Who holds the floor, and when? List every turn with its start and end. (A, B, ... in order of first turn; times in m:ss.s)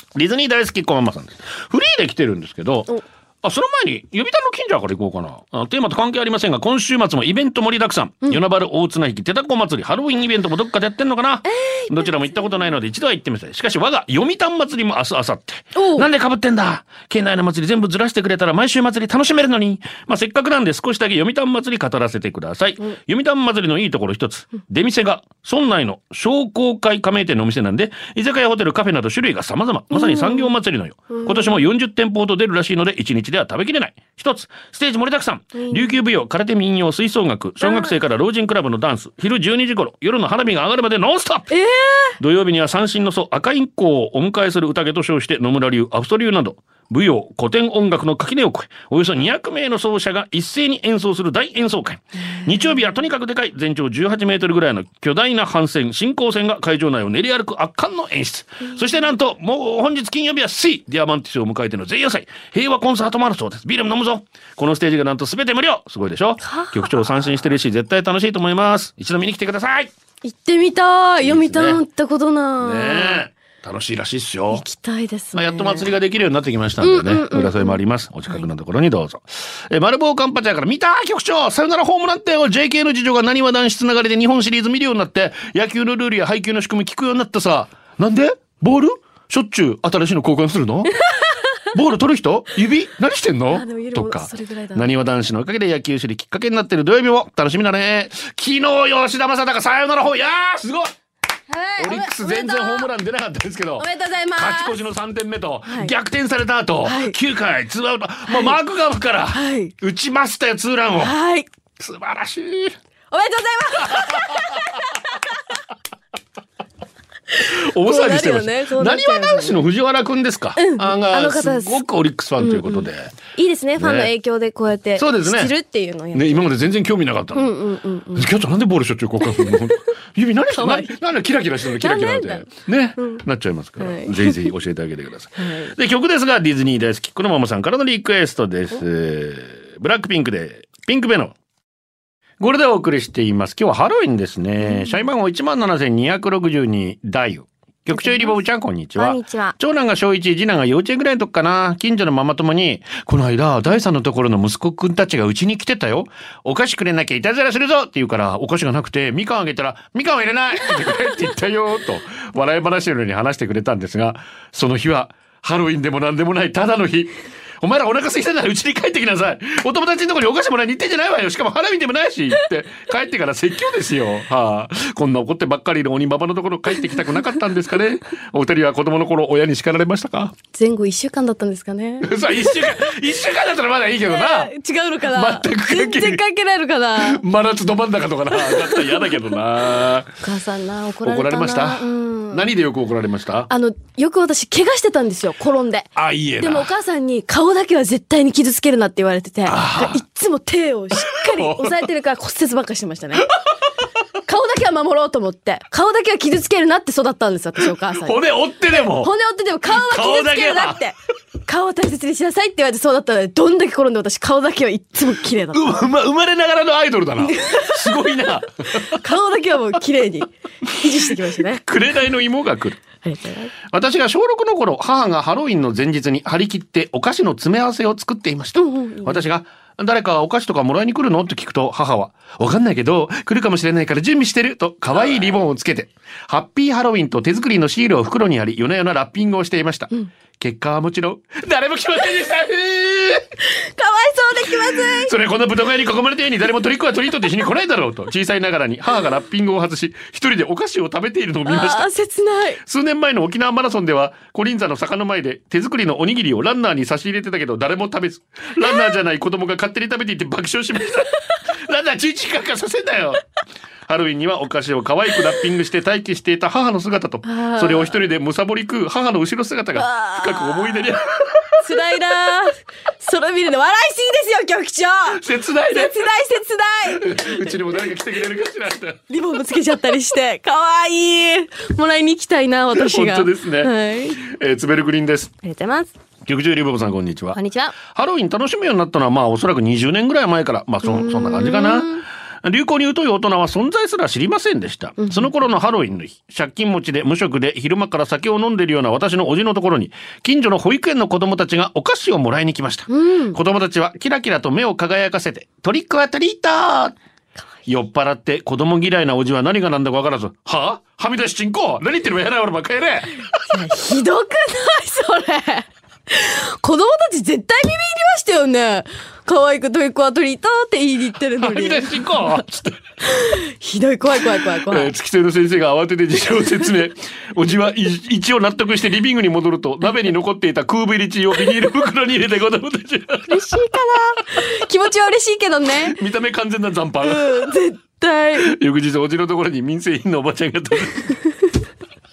0:00.2-0:02.9 A
0:03.4-0:41.5 A
0:11.5-0:12.3 B
0:15.8-0:16.1 B
0:29.9-0:30.5 B
0:31.1-0:31.6 B
0:35.6-0:36.0 B
0:37.6-0:38.0 B
0:41.5-0:42.2 B
0:42.2-1:09.9 A
1:06.4-1:06.8 B
1:10.2-1:13.2 B
1:11.2-1:11.8 A
1:12.6-1:14.6 A
1:14.5-1:15.9 B
1:15.3-1:30.9 A
1:16.8-1:17.8 B
1:31.7-1:40.9 A
1:33.5-1:34.9 B
1:41.5-1:42.9 B
1:41.8-1:51.2 A
1:43.8-1:44.8 B
1:45.7-1:45.9 B
1:46.8-1:47.2 B
1:48.3-1:48.6 B
1:49.3-1:49.7 B
1:51.0-1:51.5 B
1:51.8-1:52.8 A
1:53.1-1:54.7 B
1:53.8-1:54.6 A
1:57.4-2:03.1 A
1:57.4-1:59.7 B
2:00.6-2:01.8 B
2:02.4-2:06.5 B
2:03.8-2:04.1 A
2:05.0-2:05.5 A
2:06.1-2:07.5 A
2:07.4-2:08.3 B
2:08.2-2:21.4 A
2:10.5-2:10.9 B
2:11.8-2:12.5 B
2:13.0-2:13.2 B
2:13.8-2:14.5 B
2:15.4-2:15.7 B
2:22.4-3:00.4 A
2:24.6-2:25.0 B
2:27.9-2:28.4 B
2:29.0-2:29.6 B
3:00.5-3:02.6 B
3:02.0-3:04.5 A
3:04.0-3:07.2 B
3:05.1-3:06.2 A
3:07.0-3:10.2 A
3:08.4-3:09.1 B
3:10.2-3:12.5 B
3:11.0-3:13.5 A
3:13.5-3:23.3 B
3:16.0-3:16.7 A
3:19.5-3:20.0 A
3:21.0-3:21.8 A
3:24.3-3:28.2 B
3:27.6-3:29.1 A
3:28.8-3:31.0 B
3:29.7-3:30.8 A
3:31.5-3:35.8 B
3:35.5-3:39.0 A
3:37.2-3:37.9 B
3:38.8-3:41.6 B
3:41.6-3:42.8 A
3:43.0-3:43.5 B
3:43.7-4:03.3 A
3:48.6-3:49.2 B
4:03.5-4:05.1 B
4:04.9-4:11.9 A
4:11.5-4:12.6 B
4:12.6-4:23.2 A
4:23.9-4:31.6 A
4:27.2-4:28.0 B
4:29.8-4:30.9 B
4:31.6-4:37.4 B
4:35.1-4:36.1 A
4:36.9-4:39.0 A
4:39.1-4:44.2 B
4:42.7-4:45.3 A
4:45.4-4:45.9 B
4:46.3-5:07.0 A
4:47.3-4:47.8 B
4:50.8-4:52.0 B
4:55.0-4:55.3 B
5:02.9-5:03.4 B
5:07.7-5:13.2 A
5:13.5-5:22.4 B
5:21.4-5:22.8 A
5:23.1-5:24.9 B
5:24.6-5:33.5 A
5:33.3-5:36.0 B
5:35.8-5:37.5 A
5:37.0-5:38.5 B
5:38.4-5:41.2 A